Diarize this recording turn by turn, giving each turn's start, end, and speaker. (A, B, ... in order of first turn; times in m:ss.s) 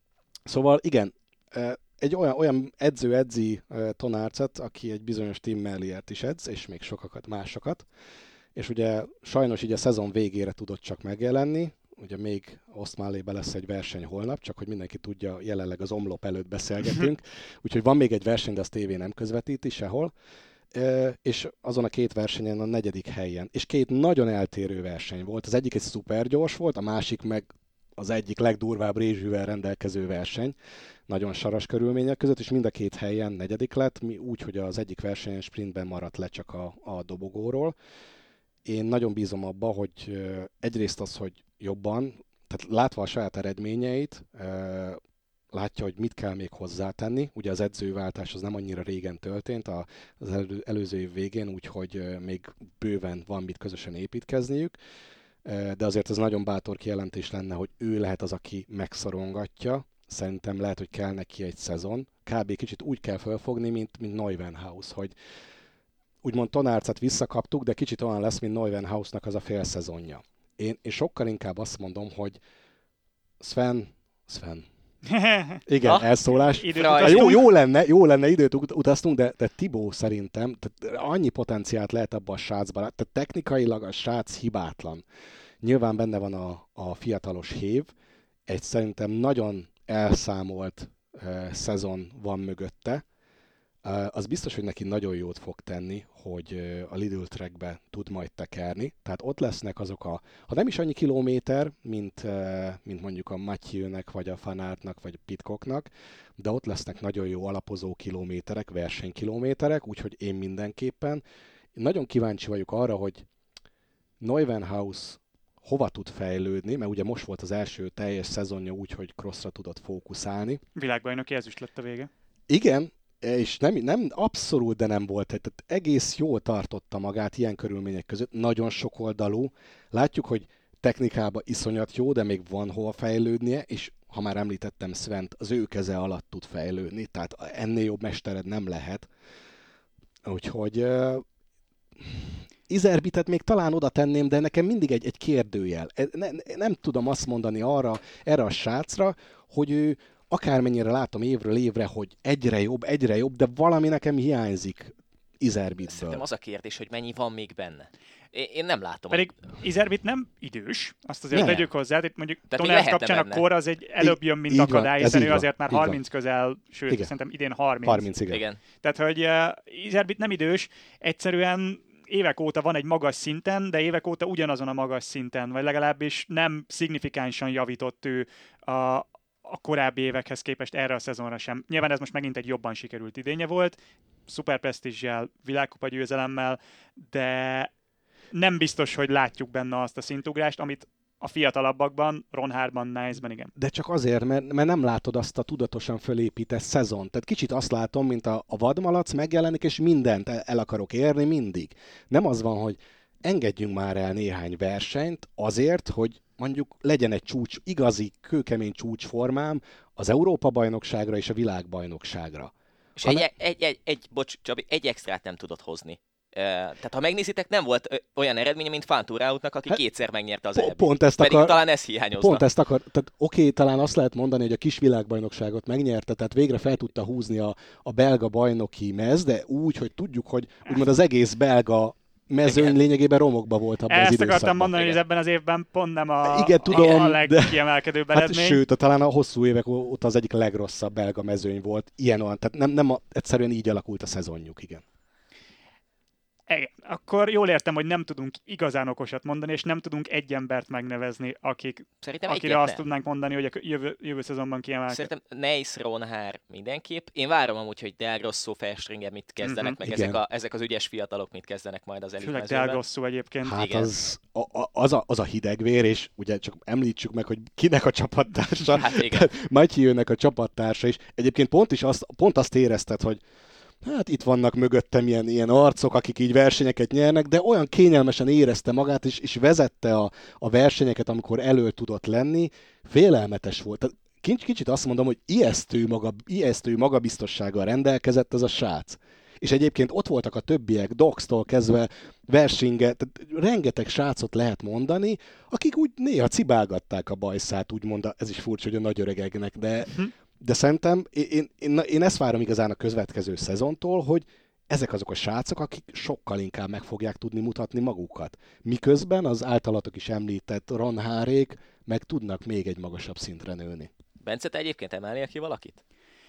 0:00.5-0:07.9 A
0:08.6-0:20.1 A
0:20.7-0:30.6 A
0:31.1-0:37.8 A
0:38.6-0:45.0 A
0:45.5-0:54.8 A
0:55.4-1:05.2 A
1:06.2-1:12.4 A
1:13.4-1:14.7 A
1:15.1-1:15.6 B
1:15.7-1:25.0 A
1:15.8-1:16.1 C
1:16.3-1:17.4 B
1:16.7-1:17.3 C
1:25.6-1:27.9 A
1:28.5-1:33.0 A
1:33.8-1:51.2 A
1:51.8-1:53.3 A
1:54.2-2:00.6 A
2:00.8-2:02.1 B
2:02.5-2:19.1 A
2:20.2-2:21.2 A
2:22.0-2:36.2 A
2:35.9-2:39.3 C
2:39.1-2:48.1 B
2:41.3-2:41.6 A
2:41.4-2:41.7 C
2:42.5-2:43.4 C
2:44.0-2:46.0 A
2:47.8-2:48.4 A
2:48.3-2:48.6 C
2:48.8-3:03.8 B
3:04.3-3:07.7 B
3:08.3-3:13.5 B
3:13.6-3:32.5 A
3:33.0-3:42.5 C
3:40.6-3:41.6 A
3:42.2-3:54.9 A
3:52.4-3:52.7 C
3:53.9-3:58.6 B
3:56.2-3:57.6 A
3:58.1-4:04.8 A
4:06.5-4:15.1 B
4:12.0-4:12.8 C
4:14.9-4:22.8 C
4:19.4-4:19.8 B
4:19.8-4:20.2 A
4:22.2-4:23.6 B
4:23.4-4:33.2 A
4:23.5-4:23.9 C
4:28.7-4:29.3 C
4:33.8-5:13.9 A
5:14.2-5:15.8 C